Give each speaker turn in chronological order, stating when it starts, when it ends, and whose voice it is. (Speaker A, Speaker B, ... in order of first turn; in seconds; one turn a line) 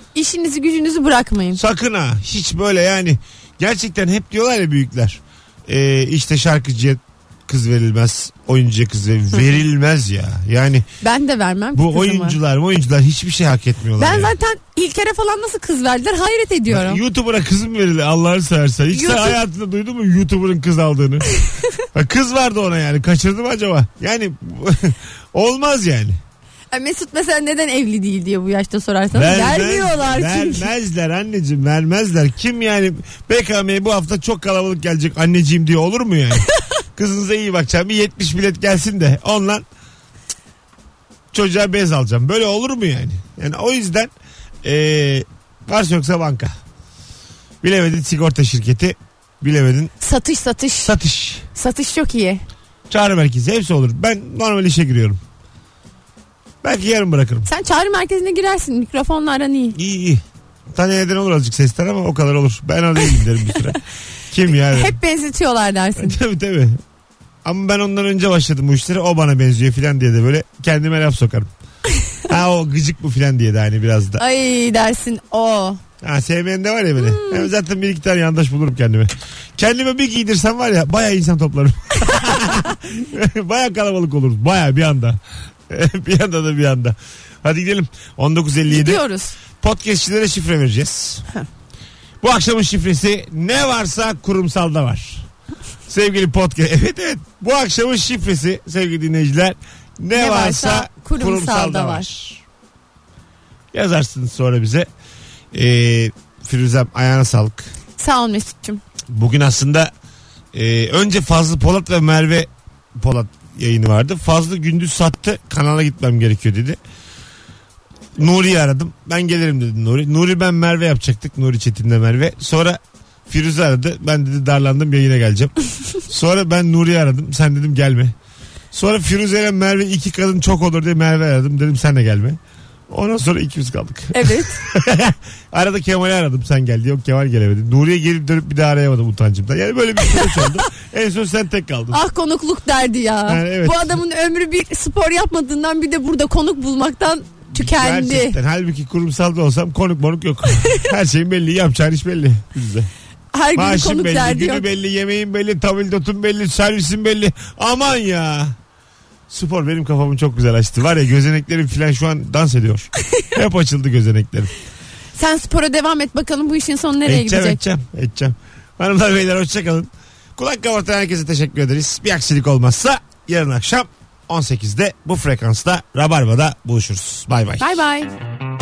Speaker A: 0.1-1.6
Speaker B: 1.5-10.9
Speaker A: 11.0-12.4
Speaker B: 11.7-14.3
Speaker A: 14.0-17.0
Speaker B: 16.7-21.2
Speaker A: 18.9-19.4
Speaker B: 21.9-26.2
Speaker A: 26.7-30.7
Speaker B: 29.1-39.6
Speaker B: 41.3-44.1
Speaker B: 44.6-46.5
Speaker B: 47.6-49.9
Speaker A: 50.0-50.9
Speaker B: 50.8-51.5
Speaker A: 51.5-52.4
Speaker B: 52.9-55.2
Speaker B: 56.6-57.5
Speaker A: 57.4-59.8
Speaker B: 59.7-63.8
Speaker B: 64.3-65.0
Speaker A: 64.5-66.2
Speaker B: 66.0-66.8
Speaker B: 67.4-71.5
Speaker B: 72.3-74.2
Speaker A: 74.2-75.8
Speaker B: 76.0-89.0
Speaker A: 77.0-77.5
Speaker A: 88.7-89.3
Speaker B: 89.6-91.2
Speaker B: 92.2-95.3
Speaker B: 95.9-102.4
Speaker A: 100.1-102.1
Speaker B: 103.7-104.9
Speaker B: 105.5-107.7
Speaker A: 108.0-108.8
Speaker B: 109.1-109.9
Speaker B: 110.5-116.8
Speaker B: 118.2-128.1
Speaker B: 128.7-132.4
Speaker B: 132.9-142.0
Speaker A: 134.1-134.6
Speaker A: 140.2-140.4
Speaker A: 141.9-148.4
Speaker B: 143.3-143.9
Speaker B: 147.5-152.9
Speaker A: 153.3-154.7
Speaker B: 153.5-158.6
Speaker B: 159.3-164.5
Speaker A: 165.1-167.6
Speaker B: 167.0-177.8
Speaker A: 177.6-178.1